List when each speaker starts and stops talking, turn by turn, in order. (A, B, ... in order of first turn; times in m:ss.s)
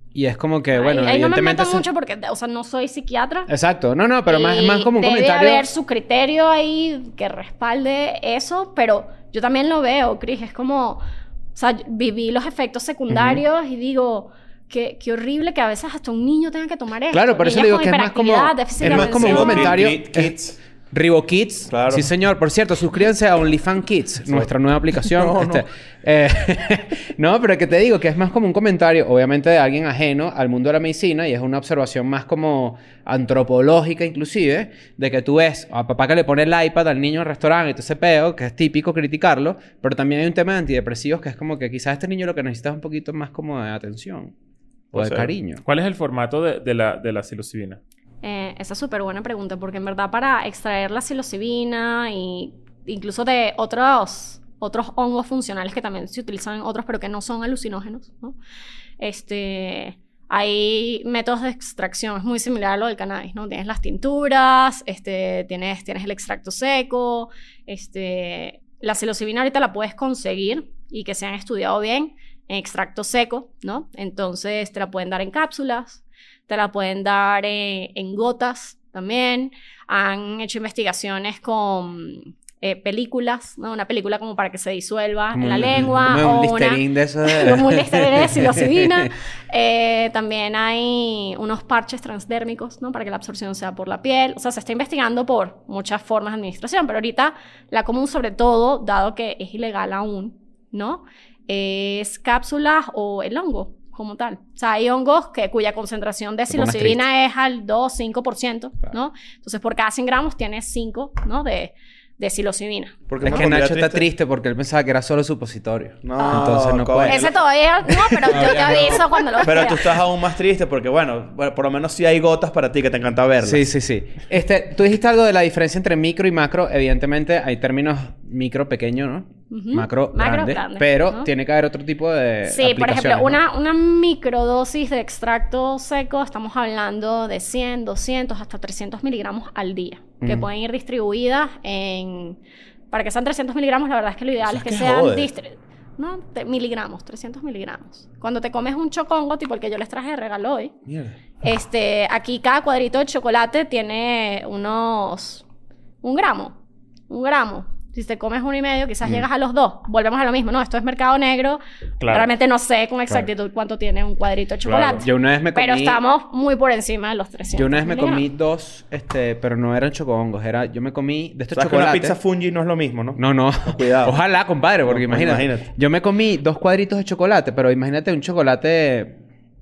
0:00.1-0:01.9 A
0:00.7-0:03.5 B
0:03.5-0:05.6 A
0:04.2-0:11.0 B
0:11.5-0:19.8 B
0:13.1-0:13.4 A
0:17.1-0:20.4 A
0:18.8-0:20.6 C
0:20.9-0:44.3 A
0:21.7-0:22.1 C
0:25.0-0:25.6 C
0:44.9-0:45.6 A
0:44.9-0:45.3 C
0:45.6-0:47.8 D
0:48.2-0:58.4 B
0:59.0-1:53.4 B
1:25.3-1:29.1 A
1:46.5-1:47.0 A
1:53.1-1:54.0 C
1:53.2-1:57.3 A
1:56.0-1:57.4 C
1:56.2-2:00.0 B
1:57.8-1:59.0 A
1:58.3-2:03.7 C
2:03.4-2:13.4 A
2:09.5-2:11.3 B
2:12.4-2:22.4 B
2:20.2-2:20.5 A
2:22.9-2:30.7 B
2:24.4-2:25.3 C
2:30.9-2:31.2 C
2:31.4-2:35.4 B
2:36.0-2:36.6 B
2:37.1-2:48.2 B
2:42.0-2:42.3 D
2:44.6-2:45.0 C
2:45.0-2:46.0 A
2:47.5-2:52.2 A
2:51.5-2:54.1 C
2:53.2-2:59.2 A
2:54.8-2:55.7 C